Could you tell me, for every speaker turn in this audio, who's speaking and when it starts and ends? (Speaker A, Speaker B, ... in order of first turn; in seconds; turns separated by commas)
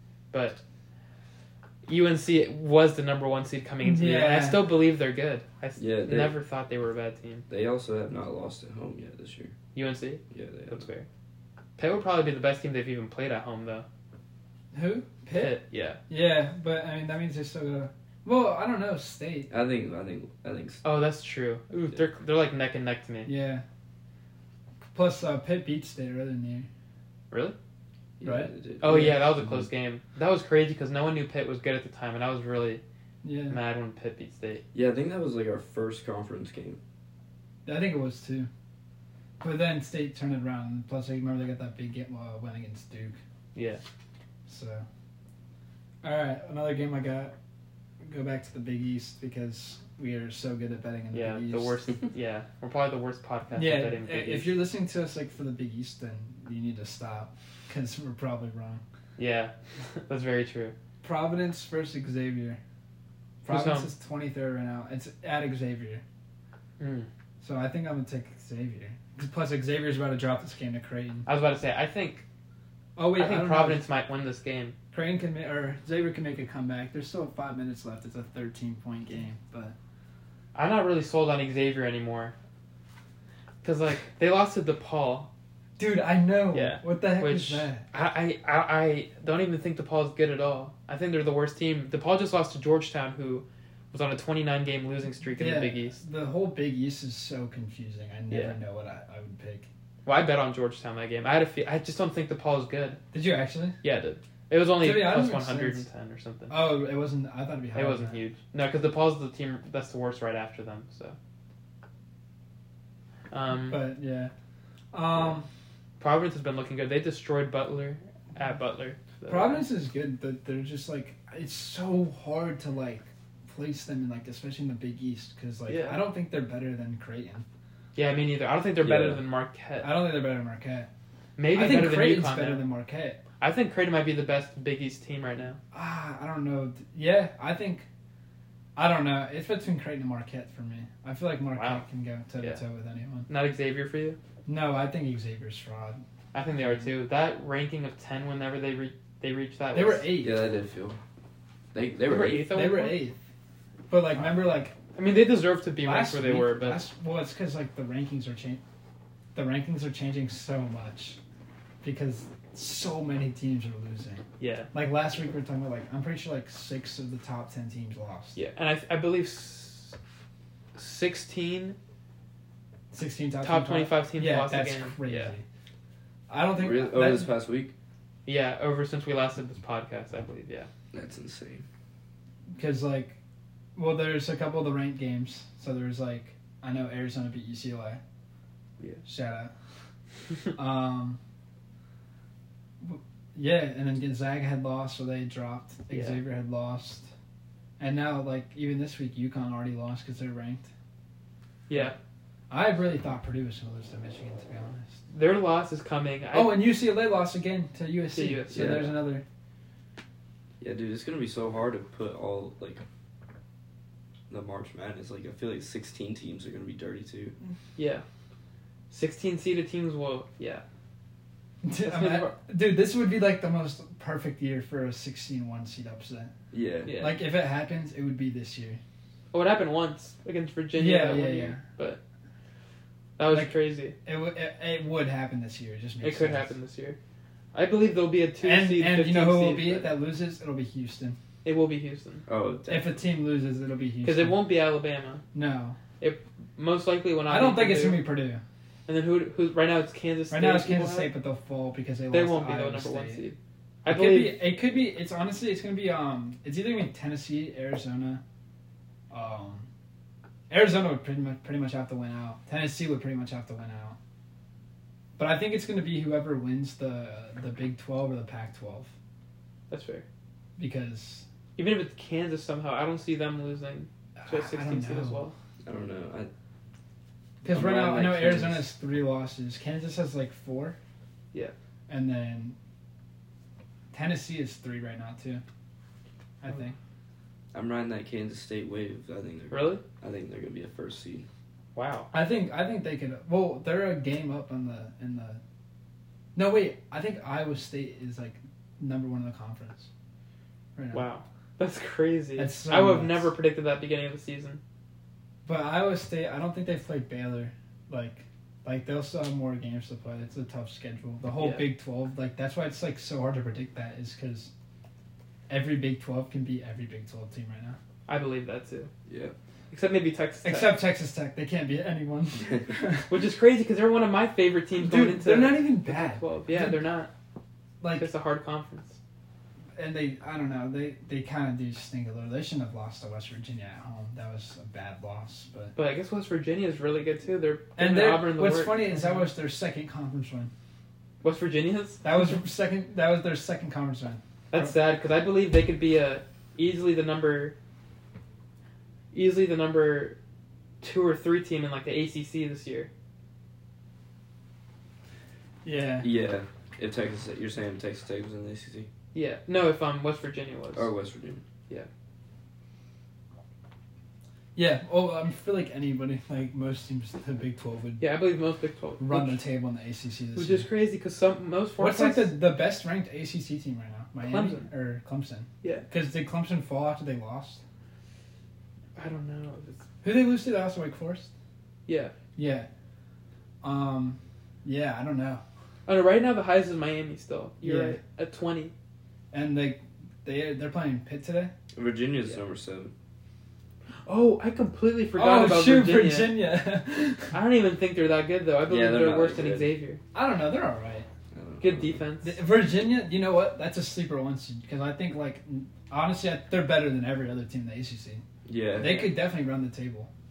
Speaker A: 0.3-0.6, Speaker A: 1.9-7.5, Speaker B: 3.8-4.8, Speaker C: 5.8-6.4, Speaker C: 7.5-9.6, Speaker A: 9.8-11.1, Speaker C: 10.3-10.8, Speaker A: 11.8-13.9, Speaker B: 14.7-19.5, Speaker A: 15.3-16.0, Speaker C: 19.5-20.9, Speaker A: 20.8-23.3, Speaker B: 23.3-23.6, Speaker B: 24.9-26.7, Speaker A: 27.3-27.6, Speaker C: 28.2-29.7, Speaker B: 28.2-29.3, Speaker A: 28.8-32.8, Speaker B: 33.2-33.6, Speaker A: 33.5-34.6, Speaker C: 34.7-36.8, Speaker B: 37.6-38.5, Speaker B: 39.4-43.2, Speaker A: 43.5-43.8, Speaker B: 44.5-44.9, Speaker B: 46.0-47.4, Speaker B: 48.0-51.8, Speaker A: 51.1-54.6, Speaker B: 53.5-58.8, Speaker A: 59.2-60.8, Speaker B: 61.0-62.6, Speaker B: 63.4-66.0, Speaker A: 63.5-63.9, Speaker A: 66.8-67.1, Speaker B: 67.4-71.3, Speaker A: 71.3-72.2, Speaker B: 73.0-73.8, Speaker A: 73.2-74.8, Speaker B: 74.9-79.8, Speaker A: 80.5-82.3, Speaker A: 83.6-85.3, Speaker B: 85.8-87.8, Speaker A: 86.5-96.0, Speaker B: 95.4-99.7, Speaker A: 98.3-98.6, Speaker A: 100.0-103.0, Speaker B: 103.1-103.8, Speaker A: 103.8-106.6, Speaker B: 104.8-105.8, Speaker B: 106.5-108.2, Speaker A: 107.8-111.2, Speaker A: 113.3-113.8, Speaker B: 113.5-114.3, Speaker B: 114.9-115.5, Speaker A: 116.0-119.7, Speaker B: 119.3-127.5, Speaker A: 125.7-126.0, Speaker A: 128.0-129.9, Speaker C: 128.8-129.2, Speaker B: 129.8-130.9, Speaker A: 131.4-132.7, Speaker B: 131.5-133.2, Speaker A: 133.4-135.6, Speaker B: 135.7-137.9, Speaker B: 138.8-143.3, Speaker A: 141.6-141.8, Speaker A: 143.3-144.2, Speaker B: 144.5-146.0, Speaker A: 146.3-150.1, Speaker B: 149.7-150.4, Speaker C: 150.2-151.0, Speaker C: 151.7-152.5, Speaker A: 152.1-153.0, Speaker B: 152.5-153.2, Speaker B: 153.9-154.8, Speaker A: 154.9-156.8, Speaker B: 155.8-158.6, Speaker B: 159.3-161.2, Speaker B: 161.8-168.4, Speaker A: 164.4-164.7, Speaker A: 168.4-170.0, Speaker A: 170.8-171.8, Speaker B: 172.9-175.4, Speaker A: 173.4-175.3, Speaker B: 176.3-177.3, Speaker C: 176.6-177.7, Speaker A: 178.3-180.7, Speaker C: 180.9-181.7, Speaker B: 182.5-183.2, Speaker B: 183.8-188.0, Speaker B: 189.0-189.5, Speaker B: 190.6-191.2, Speaker B: 192.8-197.1, Speaker A: 195.9-196.2, Speaker B: 197.8-200.7, Speaker A: 201.7-202.0, Speaker B: 202.5-205.0, Speaker A: 205.1-206.6, Speaker B: 206.3-209.2, Speaker A: 208.1-209.1, Speaker C: 210.6-212.8, Speaker C: 214.3-217.4, Speaker A: 217.8-218.1, Speaker A: 218.9-220.6, Speaker B: 221.6-226.3, Speaker A: 221.8-222.4, Speaker C: 226.5-226.9, Speaker A: 226.8-227.2, Speaker B: 226.9-228.8, Speaker A: 229.3-232.0, Speaker B: 230.8-231.6, Speaker A: 233.2-233.9, Speaker B: 233.3-236.5, Speaker A: 236.0-237.0, Speaker A: 237.5-240.0, Speaker B: 238.4-241.2, Speaker A: 241.4-242.2, Speaker C: 242.3-243.0, Speaker B: 242.7-244.4, Speaker A: 244.0-245.2, Speaker B: 245.3-245.8, Speaker A: 246.0-248.1, Speaker B: 247.3-248.4, Speaker A: 248.9-251.1, Speaker B: 250.3-253.3, Speaker A: 252.1-254.5, Speaker B: 253.9-258.2, Speaker B: 259.1-259.7, Speaker B: 260.5-264.0, Speaker B: 265.2-268.9, Speaker A: 269.7-270.1, Speaker B: 270.6-271.3, Speaker A: 271.6-275.4, Speaker B: 274.2-275.2, Speaker C: 275.6-276.3, Speaker B: 277.4-280.8, Speaker C: 277.5-278.7, Speaker B: 281.9-282.6, Speaker B: 283.9-285.4, Speaker B: 286.4-286.8, Speaker C: 287.5-291.3, Speaker A: 289.5-289.8, Speaker A: 291.8-292.1, Speaker B: 292.1-295.4, Speaker B: 296.4-299.9, Speaker B: 300.8-301.0, Speaker A: 300.9-304.6, Speaker B: 302.4-303.3, Speaker B: 305.5-314.5, Speaker A: 311.3-311.7, Speaker B: 315.5-317.8, Speaker A: 318.1-318.9, Speaker C: 319.1-319.4, Speaker A: 319.7-320.9, Speaker B: 320.4-323.2, Speaker A: 323.1-327.1, Speaker B: 324.8-326.9, Speaker B: 327.8-328.1, Speaker A: 327.9-329.0, Speaker B: 329.8-335.7, Speaker A: 335.8-339.3, Speaker B: 337.8-340.5, Speaker A: 341.2-342.2, Speaker B: 342.0-344.8, Speaker A: 344.5-347.6, Speaker A: 349.1-350.2, Speaker A: 350.8-352.9, Speaker B: 355.6-356.1, Speaker C: 356.0-358.9, Speaker A: 359.1-360.9, Speaker C: 360.7-361.4, Speaker B: 364.6-368.1, Speaker A: 368.0-369.4, Speaker B: 369.0-370.7, Speaker A: 370.4-372.4, Speaker B: 371.8-377.6, Speaker A: 374.3-374.7, Speaker A: 375.6-375.9, Speaker A: 379.0-379.9, Speaker B: 380.0-381.3, Speaker A: 381.9-382.1, Speaker B: 382.4-382.7, Speaker B: 383.6-385.4, Speaker A: 385.9-388.7, Speaker B: 387.6-388.0, Speaker B: 389.3-391.5, Speaker C: 391.7-392.9, Speaker A: 394.1-396.4, Speaker B: 395.1-397.4, Speaker A: 397.3-400.0, Speaker C: 398.7-399.7, Speaker B: 400.1-401.1, Speaker C: 401.3-402.1, Speaker A: 401.6-402.4, Speaker B: 402.2-408.2, Speaker C: 408.5-409.1, Speaker B: 408.8-410.1, Speaker A: 408.8-409.2